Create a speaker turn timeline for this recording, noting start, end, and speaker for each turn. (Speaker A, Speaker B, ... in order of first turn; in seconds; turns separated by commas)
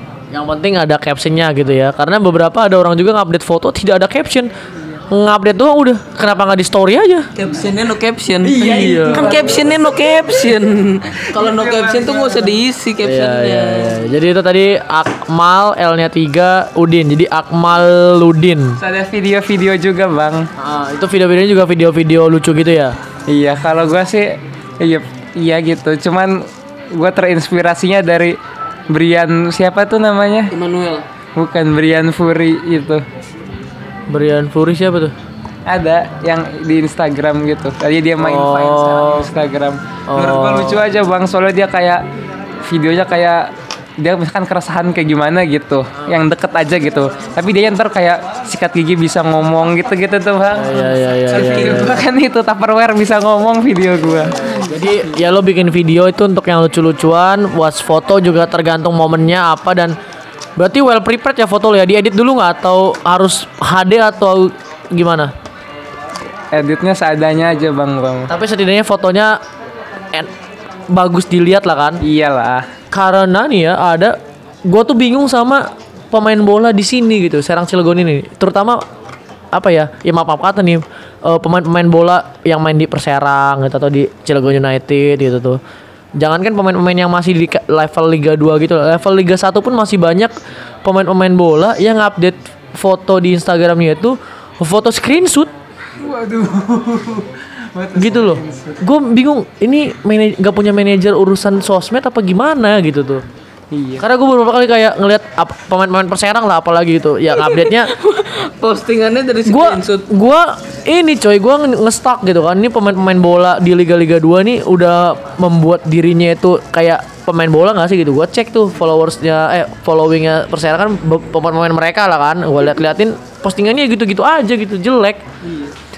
Speaker A: 0.3-4.5, Speaker A: 5.1-7.3, Speaker B: 7.3-14.0, Speaker C: 8.5-9.8, Speaker A: 8.5-9.6, Speaker C: 11.3-12.6, Speaker A: 13.0-18.8, Speaker C: 18.8-20.5, Speaker A: 20.6-22.9, Speaker C: 23.3-28.4, Speaker C: 28.9-30.5, Speaker B: 30.5-31.1, Speaker C: 31.4-33.0, Speaker A: 34.1-35.1, Speaker C: 35.6-42.0, Speaker A: 38.2-39.3, Speaker A: 40.1-40.8, Speaker C: 42.6-54.4, Speaker A: 50.5-52.0, Speaker B: 51.3-51.8, Speaker A: 54.2-60.0, Speaker A: 60.6-65.3, Speaker C: 66.5-68.3, Speaker A: 68.3-69.4, Speaker A: 70.9-72.0, Speaker C: 72.0-72.7, Speaker A: 72.9-78.8, Speaker A: 79.5-85.6, Speaker A: 86.2-95.5, Speaker C: 96.0-98.8, Speaker A: 98.0-103.2, Speaker C: 103.7-104.0, Speaker A: 104.0-107.9, Speaker B: 107.3-110.1, Speaker A: 109.5-125.2, Speaker C: 125.4-125.7